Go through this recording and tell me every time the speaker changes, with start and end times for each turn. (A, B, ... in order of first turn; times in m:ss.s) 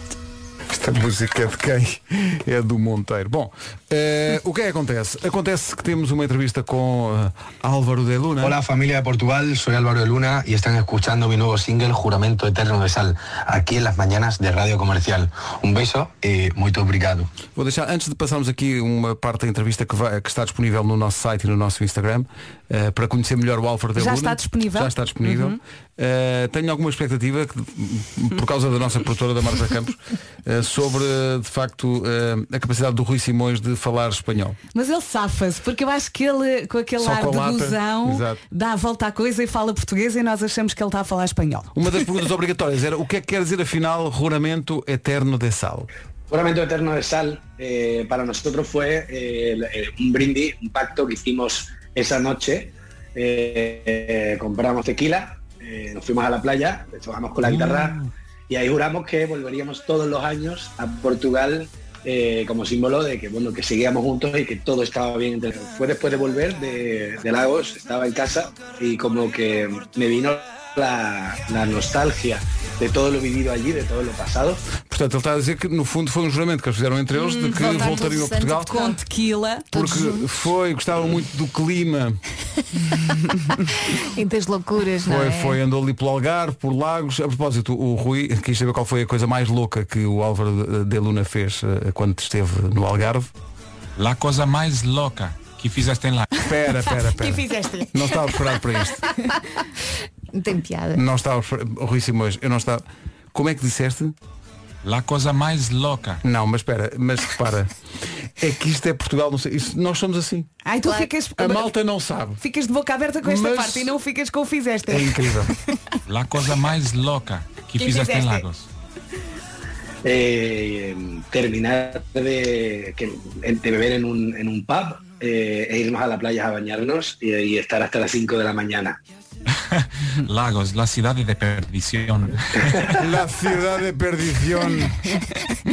0:00.7-0:08.6 A
0:08.4-0:17.3 B
0:17.5-0:34.6 A
0:24.0-0:25.6 C
0:34.7-0:41.7 C
0:37.0-0:38.4 A
0:41.7-0:45.9 A
0:46.3-1:14.6 D
1:14.8-1:18.7 A
1:17.1-1:18.1 C
1:17.4-1:19.0 E
1:18.7-1:19.7 C
1:19.7-1:20.3 E
1:19.7-1:22.2 A
1:23.9-1:25.6 E
1:25.0-1:33.3 A
1:34.0-1:36.3 F
1:36.4-1:39.1 A
1:36.8-1:38.3 C
1:40.3-1:41.0 E
1:40.9-1:44.2 A
1:44.8-1:46.2 F
1:46.2-1:47.7 A
1:48.2-1:50.5 A
1:50.6-1:51.7 C
1:51.4-1:52.4 A
1:52.4-1:55.8 C
1:53.2-1:53.9 A
1:54.9-1:55.5 A
1:56.0-1:58.7 F
1:57.8-1:58.4 C
2:00.0-2:09.0 D
2:09.7-2:12.9 F
2:12.9-2:15.0 A